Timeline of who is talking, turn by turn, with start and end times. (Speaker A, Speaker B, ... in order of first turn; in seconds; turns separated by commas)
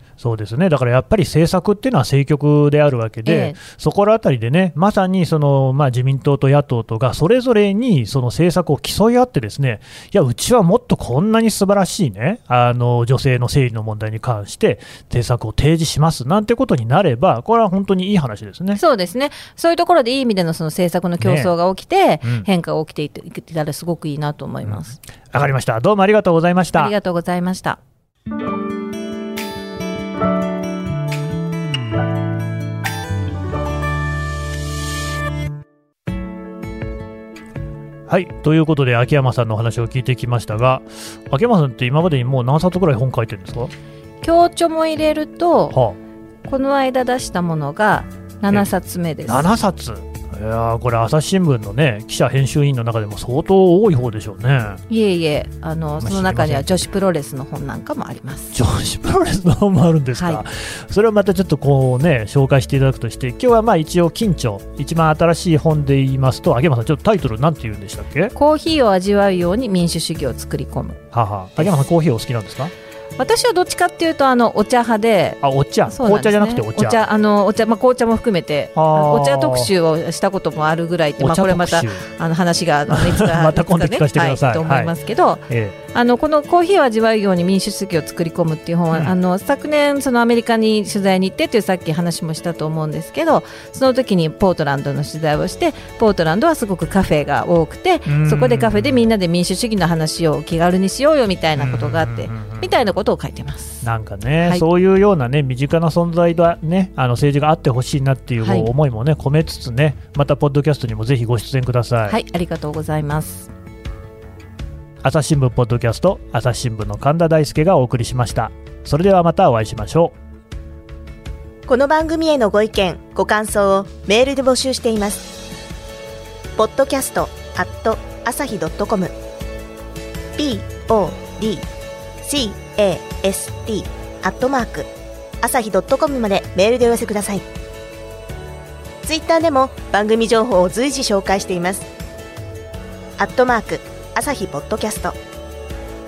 Speaker A: 0.2-18.8, Speaker B: 3.2-3.6, Speaker B: 18.8-25.0, Speaker A: 21.2-21.5, Speaker A: 25.3-26.9, Speaker B: 26.8-27.8, Speaker A: 38.1-43.7, Speaker B: 44.2-45.8, Speaker B: 46.5-49.5, Speaker A: 49.3-54.8, Speaker B: 54.9-58.5, Speaker A: 56.0-56.8, Speaker A: 58.5-68.3, Speaker B: 60.1-60.4, Speaker B: 68.3-71.0, Speaker A: 71.1-72.7, Speaker B: 71.6-71.8, Speaker B: 73.2-103.9, Speaker A: 75.4-77.0, Speaker A: 78.8-79.7, Speaker A: 81.2-82.0, Speaker A: 82.9-84.9, Speaker A: 85.5-85.8, Speaker A: 98.1-99.1, Speaker A: 101.6-102.7, Speaker A: 103.8-112.2, Speaker B: 108.4-108.7, Speaker B: 112.1-113.5, Speaker A: 115.0-120.2, Speaker C: 121.7-125.3, Speaker C: 126.6-129.1, Speaker C: 130.4-131.7, Speaker C: 132.2-134.9, Speaker C: 135.4-137.4, Speaker C: 139.0-141.9, Speaker C: 143.2-145.2